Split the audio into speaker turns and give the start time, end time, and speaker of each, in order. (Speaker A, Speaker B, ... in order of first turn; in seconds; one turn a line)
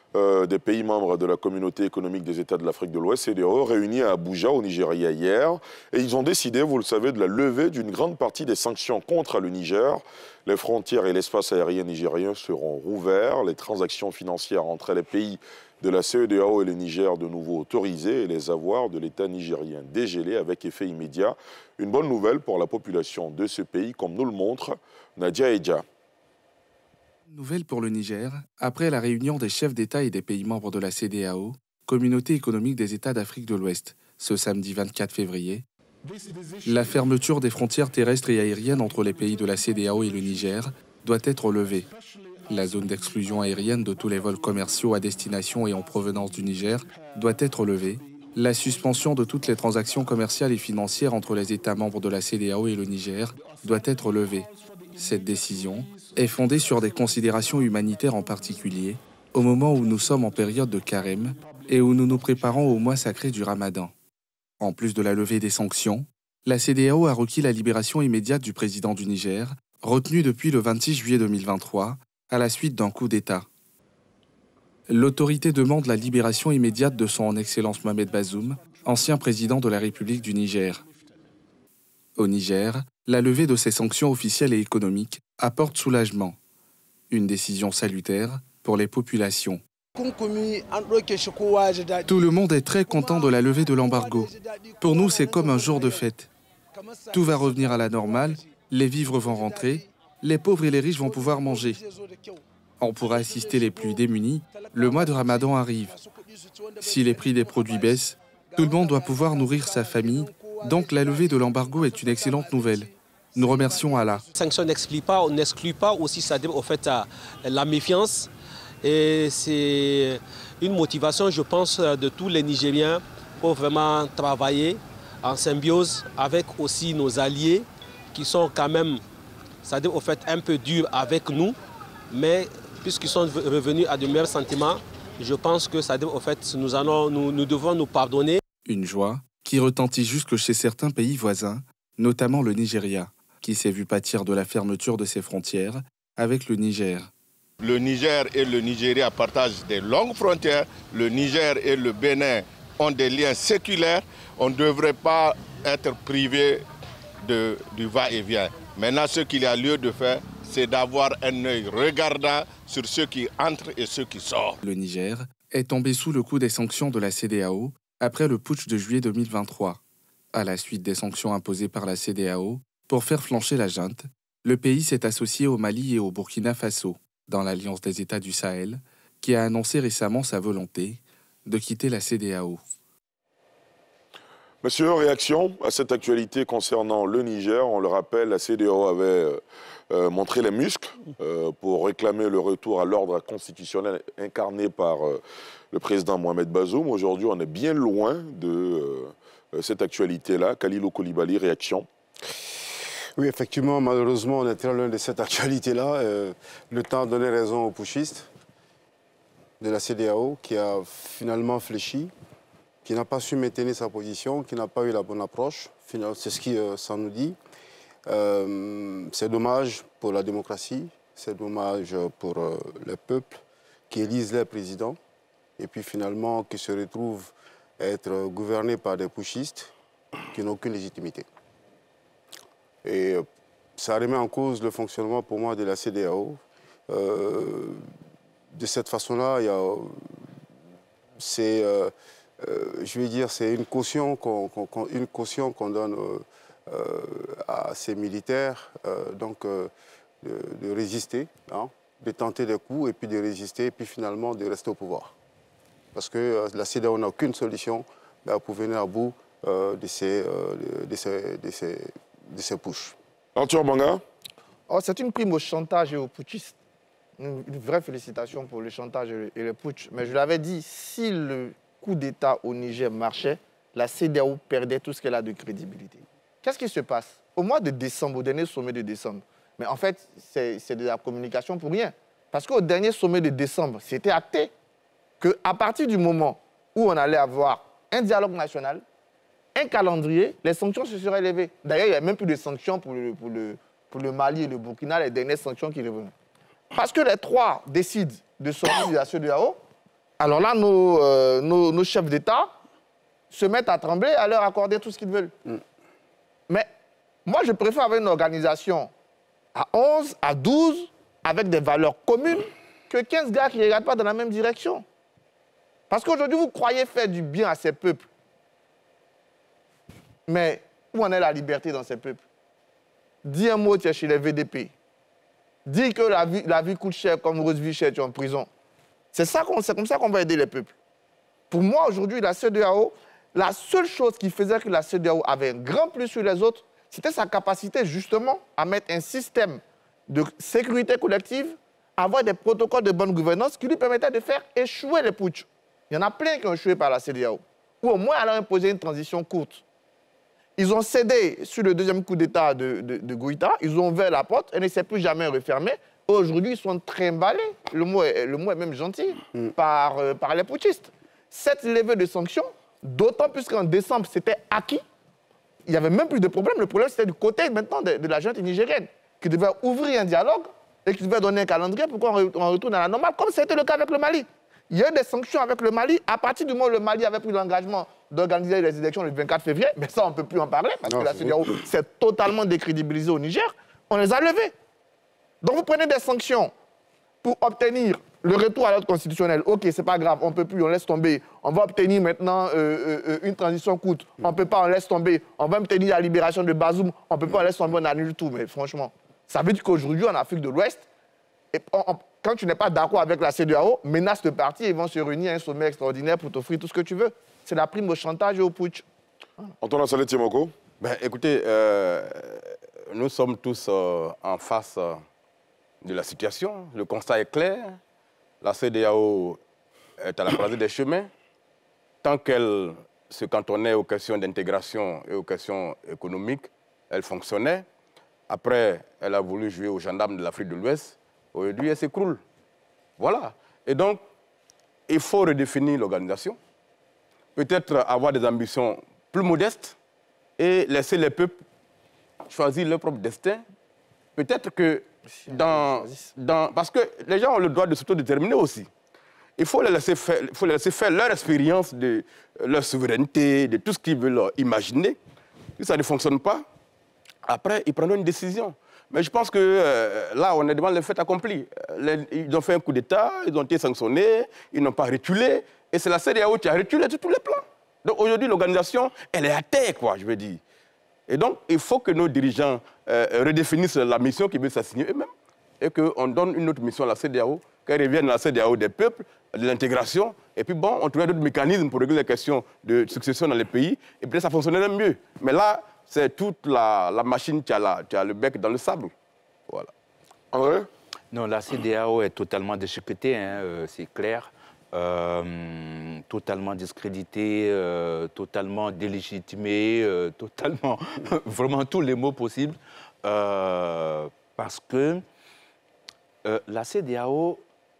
Speaker A: 0.1-25.8
Speaker B: 27.3-35.6
Speaker B: 36.6-41.9
Speaker B: 42.5-63.9
Speaker B: 64.6-73.5
Speaker B: 74.9-80.8
Speaker B: 82.2-86.3
Speaker B: 87.1-89.6
Speaker B: 92.0-96.3
Speaker B: 97.1-101.8
Speaker B: 102.8-106.0
Speaker B: 106.8-114.2
Speaker C: 114.3-118.3
Speaker C: 118.8-129.0
Speaker C: 129.6-131.6
Speaker C: 132.1-138.4
Speaker B: 138.7-147.1
Speaker D: 147.6-156.6
Speaker D: 157.2-159.2
Speaker D: 160.6-161.5
Speaker D: 162.4-163.7
Speaker B: 164.6-169.8
Speaker B: 170.3-182.6
Speaker A: 184.6-189.4
Speaker A: 189.9-195.2
Speaker A: 195.7-201.9
Speaker E: 203.2-208.3
Speaker E: 209.6-212.1
Speaker E: 212.8-217.4
Speaker E: 218.1-225.0
Speaker E: 225.6-229.7
Speaker E: 230.3-231.2
Speaker E: 232.8-233.2
Speaker E: 233.8-237.8
Speaker E: 238.5-240.3
Speaker E: 241.2-249.7
Speaker E: 250.2-255.1
Speaker E: 255.9-262.9
Speaker A: 263.4-264.0
Speaker F: 264.7-266.5
Speaker F: 267.2-284.5
Speaker F: 285.2-288.8
Speaker F: 289.5-296.1
Speaker F: 296.7-299.6
Speaker F: 300.2-302.5
Speaker F: 303.3-305.3
Speaker F: 307.2-308.9
Speaker F: 309.5-314.8
Speaker F: 315.9-318.0
Speaker F: 320.3-322.2
Speaker F: 323.2-324.7
Speaker F: 325.6-328.5
Speaker F: 329.1-330.7
Speaker F: 331.5-349.6
Speaker F: 350.6-364.8
Speaker F: 365.6-384.5
Speaker E: 380.9-381.6
Speaker F: 385.4-386.5
Speaker F: 387.2-400.8
Speaker F: 401.5-408.8
Speaker A: 409.6-410.5
Speaker G: 410.8-415.0
Speaker G: 415.8-417.8
Speaker G: 418.4-419.4
Speaker G: 420.0-421.1
Speaker G: 422.0-427.6
Speaker G: 428.3-432.2
Speaker G: 433.0-434.0
Speaker G: 434.9-436.4
Speaker G: 437.4-439.7
Speaker G: 440.4-441.4
Speaker G: 442.2-443.4
Speaker G: 444.2-448.7
Speaker F: 445.1-446.1
Speaker G: 449.4-455.0
Speaker G: 455.6-456.4
Speaker G: 457.2-470.4
Speaker G: 471.1-488.9
Speaker A: 490.3-490.7
Speaker H: 491.1-505.0
Speaker H: 506.2-507.4